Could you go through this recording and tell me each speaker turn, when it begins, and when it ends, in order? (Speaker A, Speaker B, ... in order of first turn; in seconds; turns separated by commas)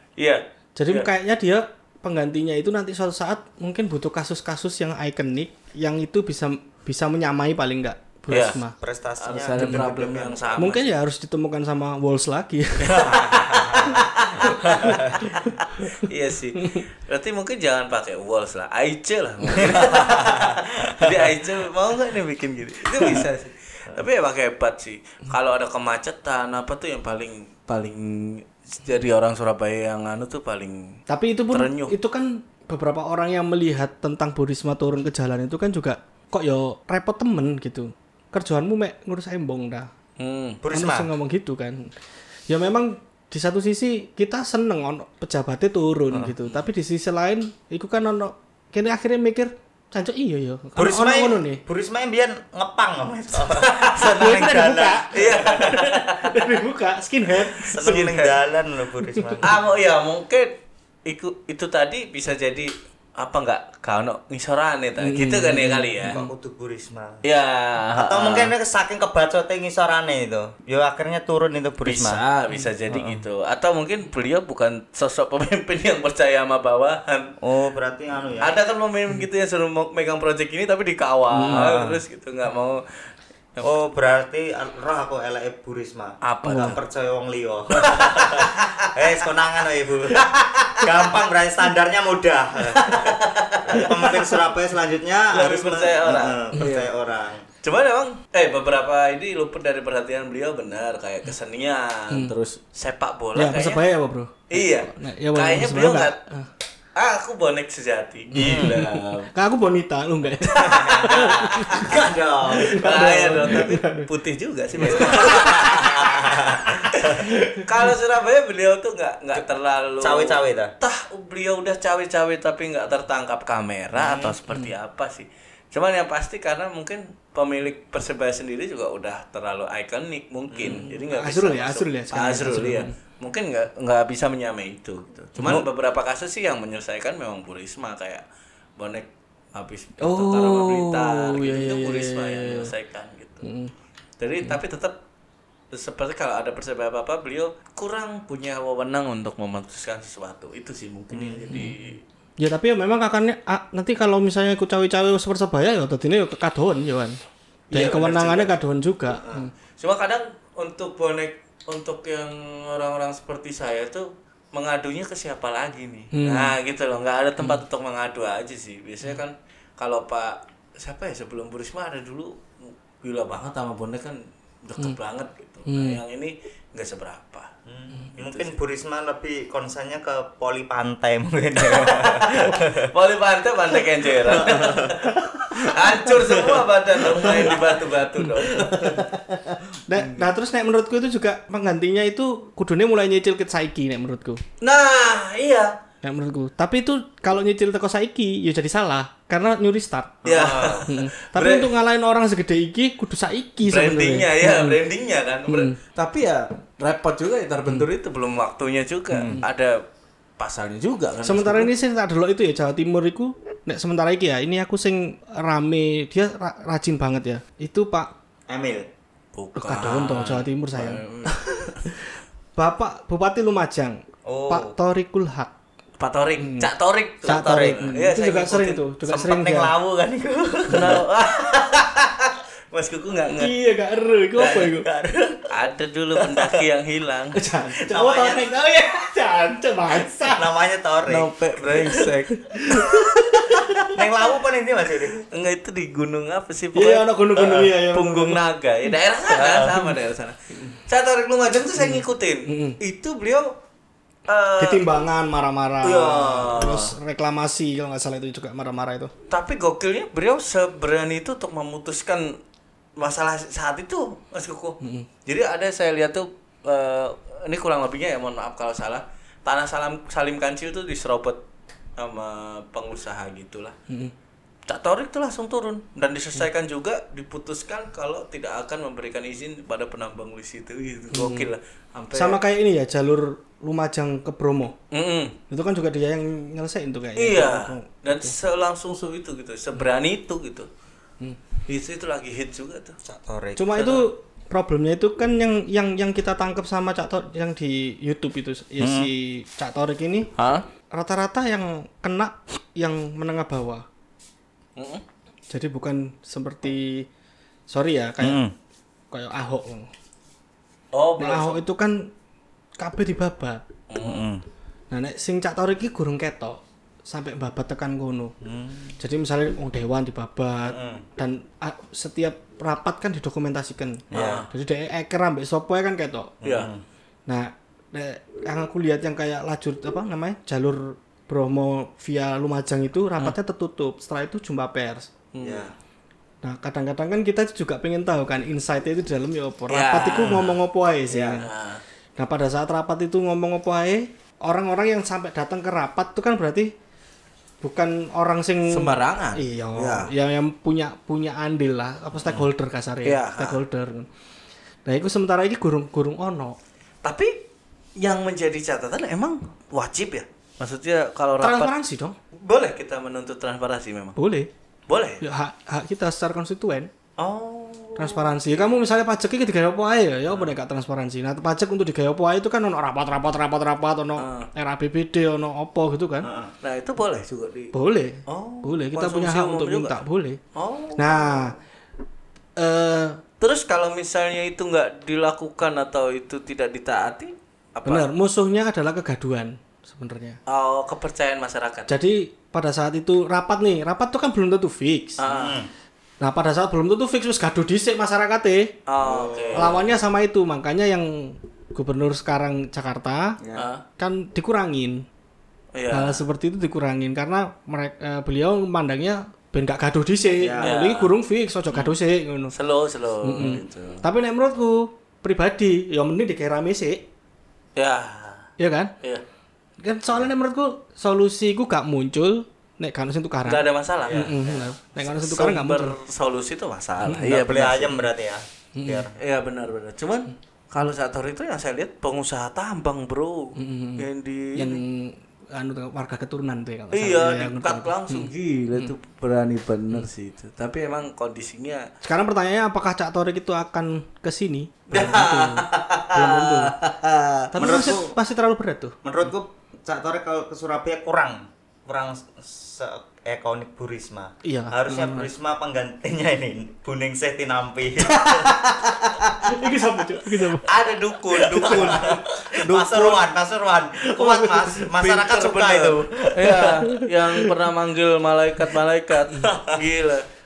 Speaker A: 0.2-1.1, Speaker B: 0.8-8.7, Speaker A: 8.3-8.6, Speaker C: 8.8-10.7, Speaker A: 9.2-11.0, Speaker B: 9.5-9.9, Speaker B: 10.6-15.9, Speaker A: 12.8-31.0, Speaker C: 12.9-15.3, Speaker C: 19.6-21.5, Speaker B: 31.1-39.9, Speaker A: 31.5-31.9, Speaker A: 40.2-40.6, Speaker C: 40.6-41.1, Speaker B: 40.7-41.9, Speaker B: 42.5-51.6, Speaker C: 46.1-46.4, Speaker C: 50.8-55.8, Speaker A: 53.5-54.3, Speaker B: 54.2-58.1, Speaker A: 55.1-56.6, Speaker C: 57.5-59.8, Speaker A: 57.8-58.4, Speaker A: 59.4-60.5, Speaker A: 61.0-66.2, Speaker B: 65.0-66.2, Speaker C: 66.1-67.2, Speaker A: 67.2-68.5, Speaker C: 67.9-72.2, Speaker A: 71.8-77.3, Speaker C: 72.9-73.2, Speaker C: 77.4-78.5, Speaker A: 78.4-83.8, Speaker B: 81.3-81.7, Speaker C: 81.5-82.0, Speaker C: 83.6-97.5, Speaker A: 86.2-86.8, Speaker B: 86.4-86.8, Speaker A: 87.7-88.9, Speaker A: 90.1-90.9, Speaker A: 92.7-94.3, Speaker A: 95.3-96.9, Speaker A: 97.6-103.8, Speaker B: 103.3-106.5, Speaker A: 104.5-106.2, Speaker A: 107.0-109.3, Speaker B: 108.3-112.0, Speaker C: 108.4-108.8, Speaker A: 110.4-111.9, Speaker C: 110.5-113.0, Speaker B: 112.5-114.1, Speaker A: 112.7-116.1, Speaker B: 114.8-116.0, Speaker C: 114.8-117.2, Speaker B: 116.7-117.9, Speaker A: 117.0-138.2, Speaker C: 120.0-120.7, Speaker C: 123.9-124.4, Speaker C: 130.5-130.8, Speaker B: 130.7-132.9, Speaker A: 138.8-143.5, Speaker B: 140.0-142.7, Speaker B: 143.4-143.7, Speaker A: 144.2-145.0, Speaker A: 145.7-152.0, Speaker C: 151.1-151.5, Speaker B: 151.5-151.8, Speaker B: 152.4-157.2, Speaker A: 157.7-158.5, Speaker B: 157.7-159.5, Speaker A: 159.8-177.5, Speaker B: 166.1-166.6, Speaker B: 175.7-176.0, Speaker C: 177.7-182.9, Speaker A: 178.1-178.5, Speaker A: 181.6-189.1, Speaker C: 184.0-187.8, Speaker B: 187.2-187.5, Speaker C: 188.4-189.0, Speaker B: 189.9-194.4, Speaker A: 194.6-195.7, Speaker B: 196.0-204.8, Speaker A: 200.2-201.7, Speaker C: 200.3-200.9, Speaker A: 203.7-209.8, Speaker B: 205.5-205.8, Speaker C: 209.1-209.4, Speaker A: 210.4-211.7, Speaker B: 211.2-218.1, Speaker C: 218.5-218.8, Speaker A: 219.3-221.8, Speaker B: 219.6-225.5, Speaker C: 224.2-224.7, Speaker A: 226.0-228.8, Speaker B: 226.4-226.7, Speaker B: 227.2-229.7, Speaker C: 229.0-231.5, Speaker A: 230.7-233.5, Speaker B: 233.3-234.9, Speaker A: 234.4-234.7, Speaker C: 234.4-235.5, Speaker A: 235.5-237.4, Speaker C: 236.2-236.6, Speaker B: 237.3-240.4, Speaker C: 237.9-238.5, Speaker C: 240.2-242.1, Speaker A: 241.1-243.9, Speaker B: 242.4-243.9, Speaker C: 243.9-245.2, Speaker A: 245.3-253.5, Speaker B: 246.7-248.4, Speaker C: 249.3-249.8, Speaker B: 251.8-252.8, Speaker A: 254.3-254.8, Speaker B: 254.6-259.1, Speaker A: 255.9-256.9, Speaker A: 259.3-262.4, Speaker A: 263.0-271.4, Speaker B: 264.8-265.1, Speaker A: 272.0-273.7, Speaker B: 273.9-274.1, Speaker A: 274.7-282.4, Speaker B: 281.1-281.5, Speaker B: 282.1-284.8, Speaker A: 284.9-285.4, Speaker B: 285.5-288.3, Speaker A: 287.1-290.7, Speaker A: 291.7-293.0, Speaker C: 293.0-293.9, Speaker B: 293.6-300.3, Speaker A: 293.8-294.0, Speaker C: 298.8-299.1, Speaker A: 300.4-300.6, Speaker B: 300.9-303.8, Speaker A: 304.8-305.0, Speaker B: 305.5-307.1, Speaker B: 307.7-308.4, Speaker C: 308.2-308.5, Speaker B: 309.1-309.9, Speaker A: 310.9-311.6, Speaker B: 311.2-312.1, Speaker B: 312.8-313.6, Speaker A: 313.9-314.3, Speaker C: 313.9-314.4, Speaker B: 314.9-318.3, Speaker C: 318.4-318.9, Speaker B: 319.0-326.3, Speaker C: 320.6-321.0, Speaker C: 324.1-324.4, Speaker A: 324.1-324.5, Speaker C: 326.4-326.8, Speaker A: 326.4-326.7, Speaker B: 327.3-335.1, Speaker A: 335.3-335.7, Speaker C: 335.4-335.8, Speaker B: 336.4-341.5, Speaker A: 339.7-340.5, Speaker C: 340.0-340.5, Speaker C: 341.1-341.4, Speaker A: 341.4-341.8, Speaker B: 342.2-346.7, Speaker B: 347.6-354.1, Speaker A: 348.7-350.1, Speaker A: 353.0-353.6, Speaker B: 354.8-356.6, Speaker A: 357.0-357.4, Speaker A: 358.0-361.7, Speaker B: 361.4-362.1, Speaker A: 362.4-364.2, Speaker B: 364.2-364.5, Speaker A: 364.9-365.2, Speaker B: 365.2-366.9, Speaker A: 367.2-368.8, Speaker B: 367.9-376.3, Speaker A: 374.2-374.5, Speaker C: 376.2-376.5, Speaker A: 376.6-377.7, Speaker B: 377.7-380.4, Speaker A: 378.2-380.0, Speaker A: 380.5-381.5, Speaker B: 381.0-381.6, Speaker B: 382.6-383.2, Speaker A: 383.4-388.1, Speaker B: 387.9-390.4, Speaker A: 390.5-391.9, Speaker B: 391.9-395.2, Speaker A: 395.2-395.6, Speaker C: 395.2-395.7, Speaker B: 396.2-398.8, Speaker A: 398.9-399.8, Speaker C: 399.0-399.8, Speaker B: 399.5-403.4, Speaker C: 403.4-403.7, Speaker A: 403.6-403.8, Speaker B: 404.0-405.1, Speaker A: 405.7-406.2, Speaker B: 405.9-412.5, Speaker C: 410.4-410.8, Speaker A: 410.6-411.1, Speaker A: 412.5-414.0, Speaker B: 413.2-417.0, Speaker A: 417.8-418.5, Speaker B: 418.6-418.9, Speaker B: 419.8-426.0, Speaker A: 423.4-428.0, Speaker C: 424.0-424.5, Speaker B: 427.0-427.4, Speaker C: 427.2-429.1, Speaker B: 428.7-429.1, Speaker A: 429.2-434.8, Speaker B: 433.6-438.9, Speaker A: 436.9-441.9, Speaker B: 442.0-446.8, Speaker A: 444.9-447.5, Speaker B: 447.5-449.0, Speaker C: 447.6-448.1, Speaker C: 449.0-458.6, Speaker B: 454.4-455.3, Speaker B: 458.1-458.6, Speaker A: 458.6-459.5, Speaker B: 459.4-460.7, Speaker A: 460.6-462.2, Speaker B: 461.4-463.2, Speaker C: 461.4-466.8, Speaker B: 464.0-464.9, Speaker A: 464.9-470.2, Speaker B: 466.8-467.4, Speaker C: 469.4-469.8